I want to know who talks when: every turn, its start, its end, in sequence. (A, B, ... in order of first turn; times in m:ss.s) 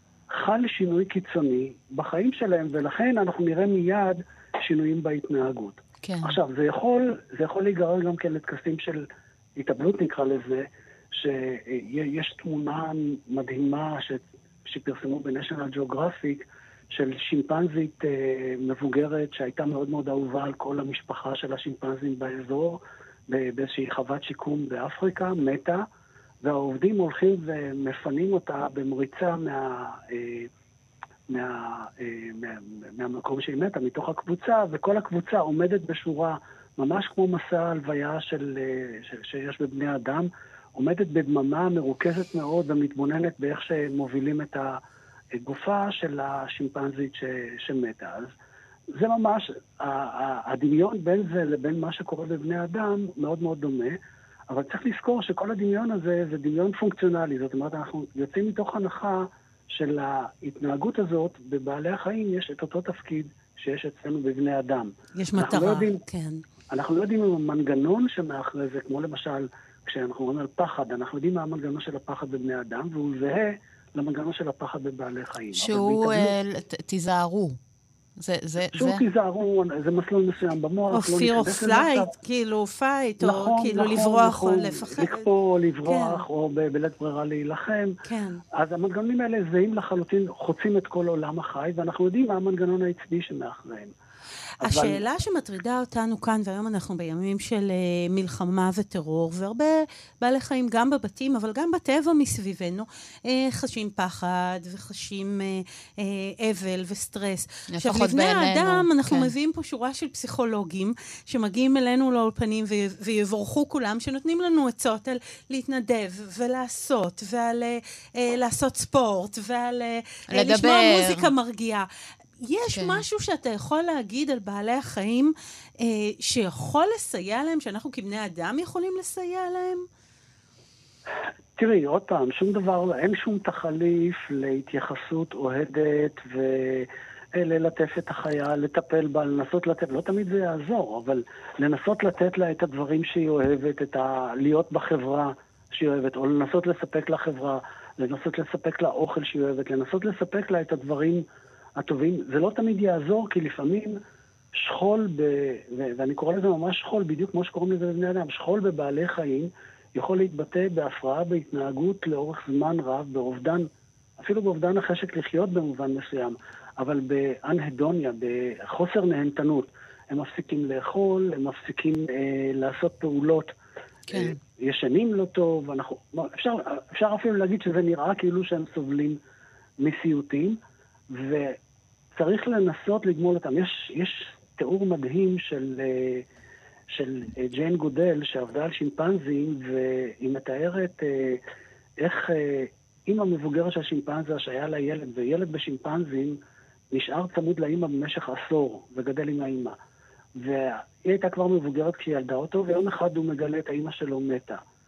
0:00.3-0:25.8 A
0:06.0-0:06.4 B
0:26.4-0:30.5 A
0:31.3-0:44.8 A
0:45.3-0:48.3 A
0:49.0-0:54.0 A
0:54.5-1:06.0 A
1:05.2-1:06.4 C
1:06.7-1:16.3 A
1:15.5-1:17.6 B
1:18.2-1:19.0 B
1:18.7-1:22.1 A
1:20.9-1:25.2 C
1:23.2-1:27.9 A
1:25.8-1:26.2 C
1:28.0-1:28.4 C
1:28.5-1:33.9 A
1:34.6-1:35.0 A
1:34.6-2:01.9 C
1:47.7-1:49.3 B
2:00.3-2:01.3 B
2:02.4-2:09.8 C
2:02.7-2:03.0 B
2:11.6-2:31.2 A
2:31.8-2:34.0 A
2:34.6-2:53.5 A
2:54.1-2:54.4 B
2:54.1-2:59.2 A
2:59.8-3:00.6 A
3:01.1-3:01.6 A
3:02.1-3:06.2 A
3:06.9-3:11.4 A
3:12.0-3:16.4 A
3:16.9-3:19.8 A
3:20.4-3:24.6 A